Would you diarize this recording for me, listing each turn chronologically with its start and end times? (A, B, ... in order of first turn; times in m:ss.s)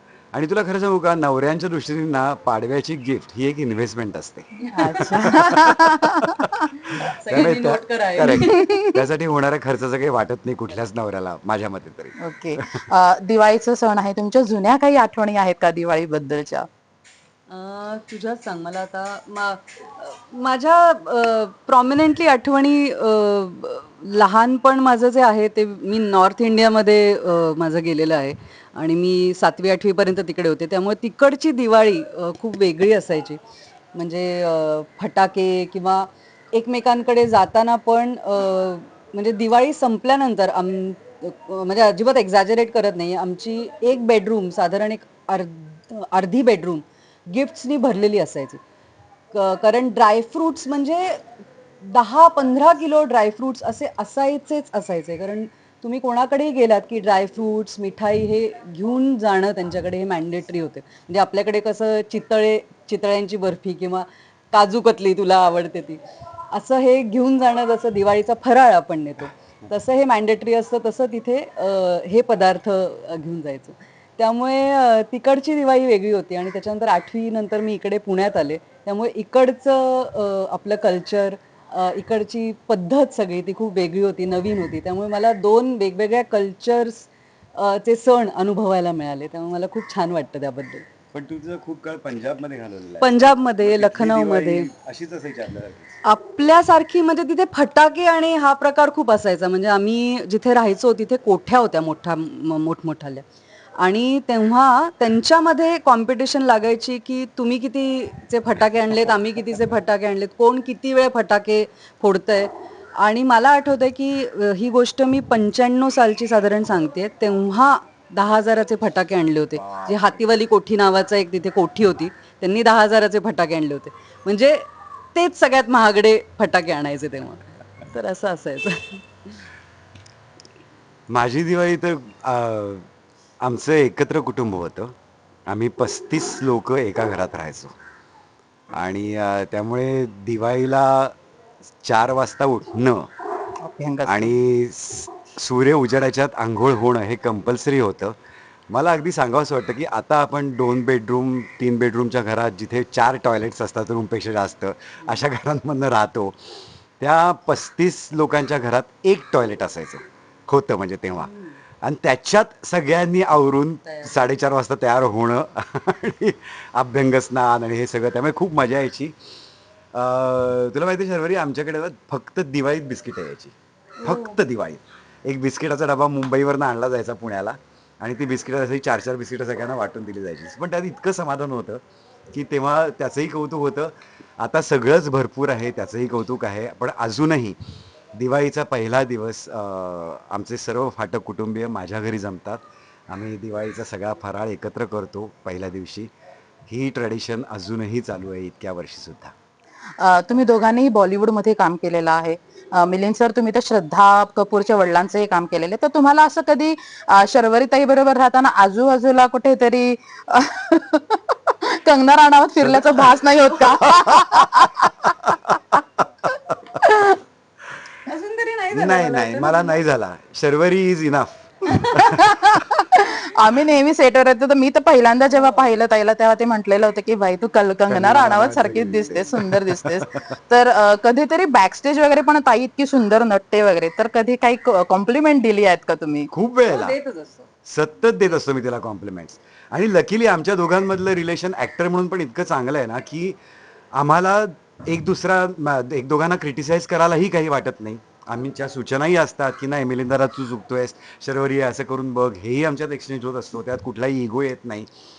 0:00.3-0:06.5 A
0:04.6-0:05.3 B
0:04.7-0:06.6 C
0:06.8-0:08.8 B
0:07.3-0:12.8 A
0:08.2-0:09.0 C
0:12.2-0:16.7 C
0:17.5-0:33.4 B
0:33.9-0:48.6 B
0:49.3-0:51.2 B
0:51.8-1:30.9 B
1:31.1-1:36.0 A
1:33.0-1:34.7 B
1:36.0-1:43.2 B
1:43.8-2:09.4 B
1:59.6-2:00.1 A
2:11.1-2:12.8 A
2:13.4-2:14.9 A
2:15.5-2:17.7 A
2:18.8-2:21.1 A
2:21.8-2:23.1 A
2:23.6-2:24.3 C
2:24.0-2:28.1 A
2:28.7-2:41.3 A
2:41.1-2:41.6 B
2:41.8-2:49.2 A
2:43.8-2:44.1 B
2:49.9-3:07.6 A
2:54.0-2:54.4 B
3:08.1-3:16.1 A
3:16.7-3:19.3 A
3:20.0-3:35.3 C
3:32.6-3:36.6 A
3:36.8-3:37.2 C
3:38.0-3:39.8 B
3:38.7-3:42.2 A
3:41.7-3:42.0 B
3:42.0-3:56.3 C
3:45.3-3:45.6 B
3:47.9-3:50.1 A
3:56.3-3:56.9 A
3:56.7-3:57.5 B
3:57.7-4:03.4 A
4:04.0-4:14.9 A